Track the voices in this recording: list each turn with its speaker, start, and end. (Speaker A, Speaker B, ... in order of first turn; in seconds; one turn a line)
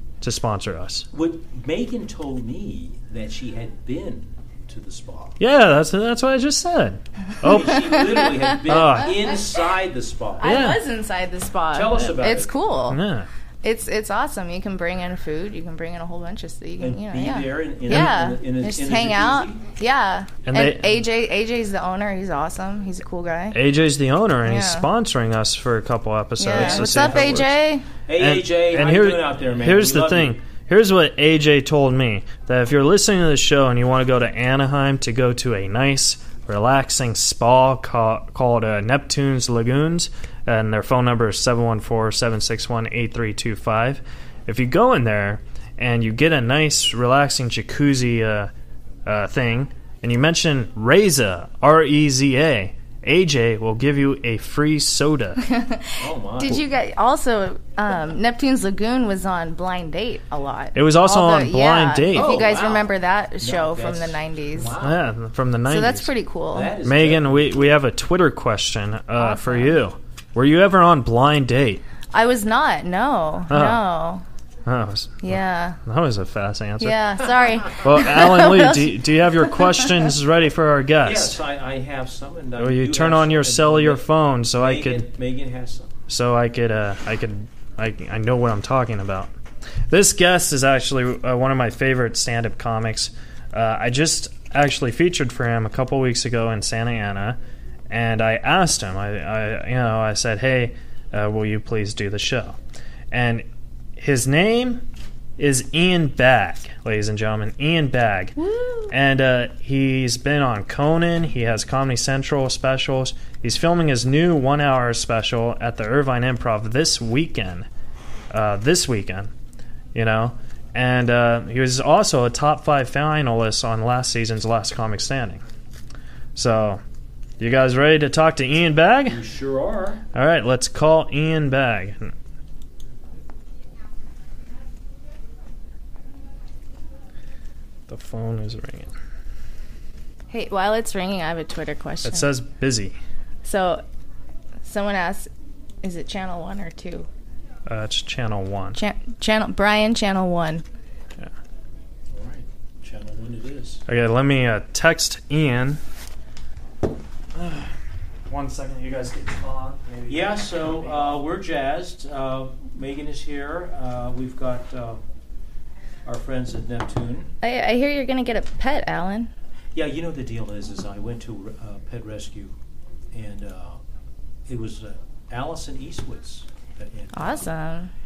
Speaker A: 0.2-1.1
Speaker B: 1.1-5.4
Speaker A: 5.4-8.0
Speaker B: 7.4-10.7
Speaker C: 8.0-8.5
Speaker A: 8.6-9.3
Speaker C: 10.4-13.0
Speaker A: 10.4-10.8
Speaker B: 11.7-12.5
Speaker A: 12.9-13.3
Speaker C: 13.6-23.6
Speaker B: 16.8-19.6
Speaker A: 20.5-20.9
Speaker A: 23.5-27.6
Speaker C: 24.4-24.9
Speaker C: 26.4-27.8
Speaker B: 26.5-27.4
Speaker B: 28.1-30.4
Speaker A: 28.2-48.5
Speaker A: 49.0-55.4
Speaker C: 55.4-64.7
Speaker B: 56.0-56.6
Speaker A: 60.7-62.5
Speaker B: 62.1-65.1
Speaker A: 64.8-66.1
Speaker C: 65.7-66.7
Speaker B: 66.5-67.8
Speaker A: 66.8-71.8
Speaker C: 69.2-69.8
Speaker C: 72.1-74.2
Speaker A: 73.5-73.8
Speaker A: 74.7-77.2
Speaker C: 75.2-75.8
Speaker C: 76.8-79.9
Speaker A: 77.8-81.4
Speaker B: 81.0-85.9
Speaker A: 82.6-85.0
Speaker A: 86.1-89.3
Speaker A: 89.9-97.4
Speaker A: 97.9-102.6
Speaker A: 103.1-103.4
Speaker A: 104.0-104.8
Speaker A: 105.4-108.3
Speaker C: 108.4-108.9
Speaker A: 108.9-117.7
Speaker A: 118.3-119.3
Speaker A: 119.9-125.4
Speaker A: 126.3-126.8
Speaker A: 127.4-129.2
Speaker B: 129.1-130.0
Speaker A: 130.1-132.1
Speaker A: 137.9-138.9
Speaker C: 140.3-142.3
Speaker A: 142.0-143.0
Speaker C: 143.4-143.8
Speaker C: 144.6-145.3
Speaker C: 145.8-147.1
Speaker A: 147.7-148.8
Speaker C: 148.8-150.6
Speaker B: 152.1-153.8
Speaker A: 153.9-155.8
Speaker A: 157.3-157.7
Speaker A: 158.3-161.2
Speaker B: 160.1-165.0
Speaker B: 166.1-167.3
Speaker C: 167.4-169.3
Speaker B: 169.7-172.5
Speaker B: 173.1-173.8
Speaker B: 174.5-177.5
Speaker C: 177.1-177.9